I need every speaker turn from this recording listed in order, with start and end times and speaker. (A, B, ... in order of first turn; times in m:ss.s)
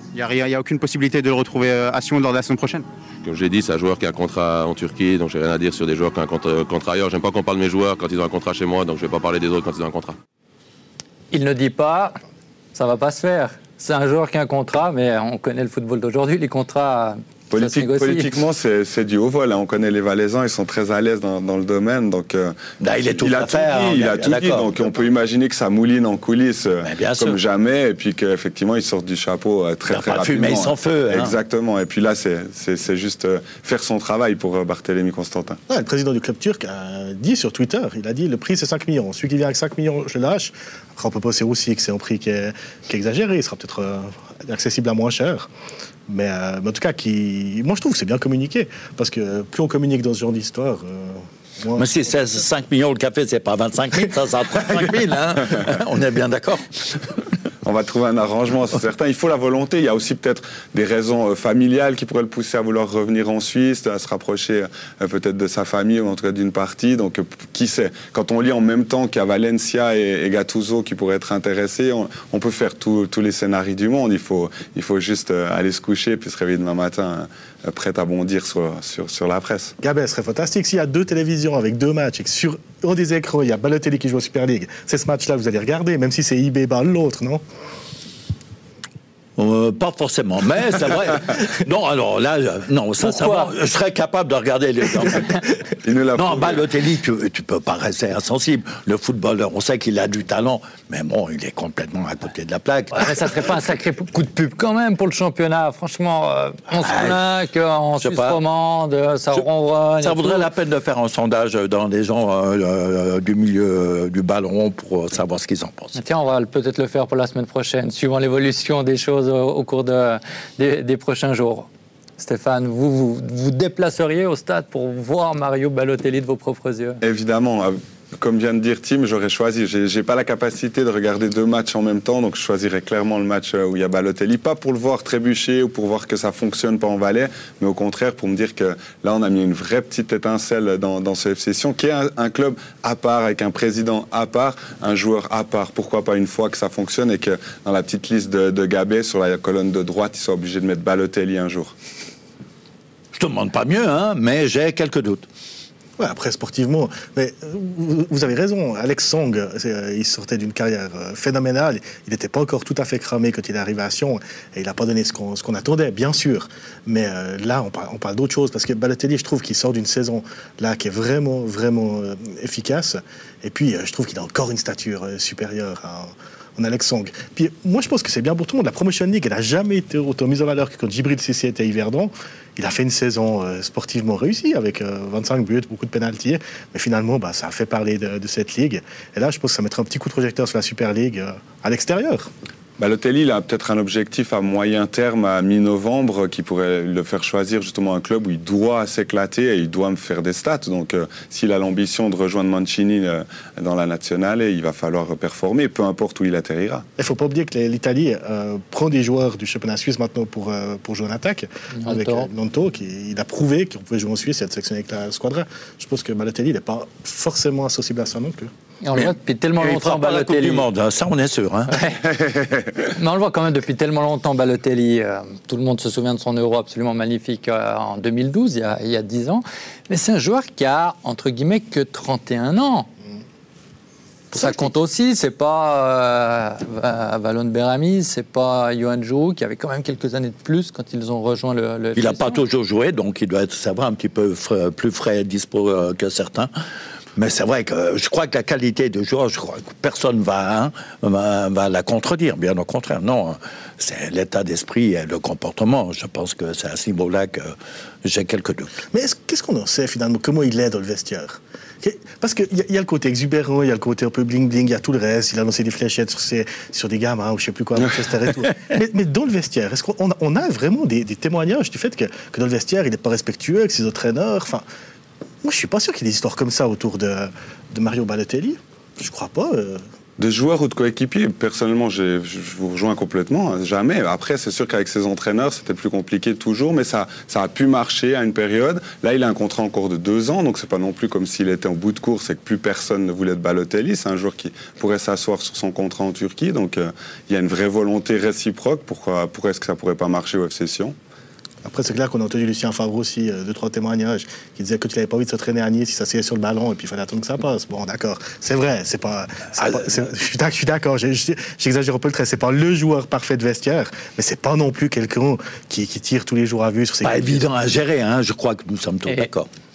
0:00.1-0:02.8 A
0:03.2-0:10.2 B
0:11.3-0:12.2 C
0:12.7-0:18.3 C
0:17.5-0:22.6 D
0:22.8-0:24.9 E
0:23.1-0:35.6 D
0:26.8-0:27.4 E
0:29.9-0:31.4 E
0:35.7-0:45.5 F
0:46.1-0:51.9 F
0:51.8-0:57.1 E
0:57.6-1:19.7 D
1:19.8-1:27.4 F
1:29.4-1:35.4 E
1:33.0-1:33.5 C
1:35.8-1:36.7 D
1:36.1-1:43.4 E
1:42.9-1:50.5 C
1:46.7-1:47.2 E
1:48.0-1:48.4 E
1:50.0-1:56.0 E
1:56.0-2:01.7 C
2:02.2-2:07.0 C
2:07.0-2:31.7 D
2:33.1-2:35.2 E
2:36.0-3:12.3 F
3:12.8-3:26.8 D
3:27.0-3:38.5 F
3:31.8-3:32.3 C
3:38.8-3:40.6 C
3:38.9-3:42.0 E
3:41.7-3:42.0 C
3:42.8-3:52.9 C
3:54.3-4:02.4 C
4:02.0-4:06.5 E
4:07.2-4:18.7 E
4:18.9-4:34.6 F
4:35.4-4:39.8 F
4:40.2-5:00.9 D
5:01.6-5:17.4 F
5:09.6-5:10.1 E
5:17.0-5:19.5 E